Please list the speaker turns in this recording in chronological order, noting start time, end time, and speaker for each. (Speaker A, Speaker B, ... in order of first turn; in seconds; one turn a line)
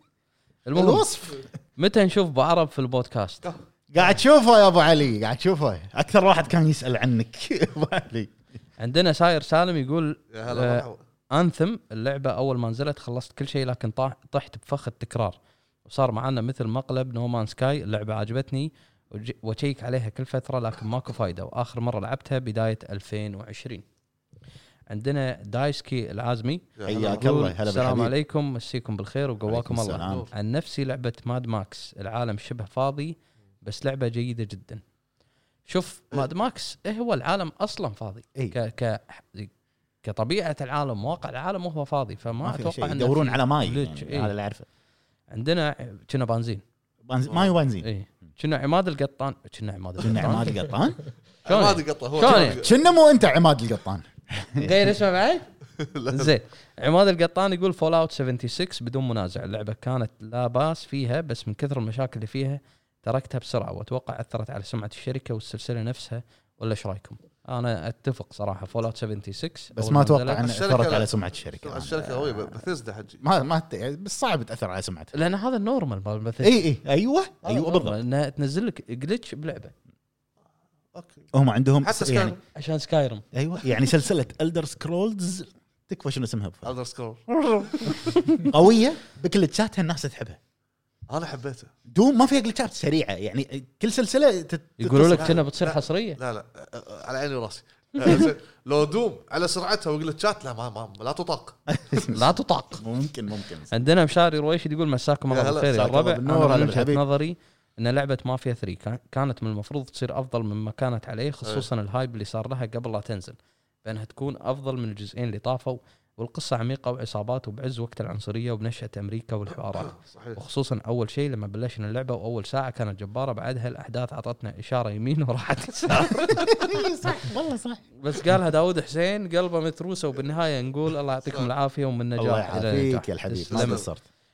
Speaker A: 0.7-1.1
Speaker B: 0.7-1.4
Speaker A: 1.8-3.5
Speaker B: 3.9-8.3
Speaker A: 8.8-23.8
Speaker C: 10.3-11.0
Speaker A: 24.9-34.8
Speaker C: 26.8-27.2
Speaker B: 26.9-28.1
Speaker B: 29.4-30.3
Speaker C: 30.0-30.3
Speaker A: 35.7-39.5
Speaker A: 40.0-44.3
Speaker B: 42.4-44.7
Speaker A: 45.3-46.6
Speaker B: 47.0-47.9
Speaker C: 47.3-47.5
Speaker A: 47.8-50.5
Speaker B: 50.0-51.0
Speaker C: 51.4-52.8
Speaker A: 51.5-52.6
Speaker B: 52.2-54.9
Speaker A: 54.6-55.5
Speaker C: 55.8-56.3
Speaker A: 56.1-70.4
Speaker B: 69.7-72.1
Speaker C: 70.4-73.2
Speaker B: 73.2-75.1
Speaker A: 75.1-76.7
Speaker B: 76.4-78.0
Speaker A: 77.4-79.7
Speaker C: 80.9-81.3
Speaker B: 81.3-82.4
Speaker C: 81.8-82.4
Speaker A: 82.5-83.2
Speaker B: 83.3-86.7
Speaker C: 86.6-87.2
Speaker B: 87.4-90.4
Speaker A: 88.1-88.4
Speaker C: 91.1-91.7
Speaker B: 91.9-95.4
Speaker A: 94.8-96.2
Speaker C: 95.1-101.7
Speaker B: 101.7-103.7
Speaker A: 102.1-102.8
Speaker A: 103.7-126.6
Speaker C: 105.3-105.8
Speaker B: 105.7-107.0
Speaker C: 119.9-120.4
Speaker B: 126.3-127.8
Speaker A: 128.0-133.8
Speaker B: 132.2-134.0
Speaker C: 133.5-133.8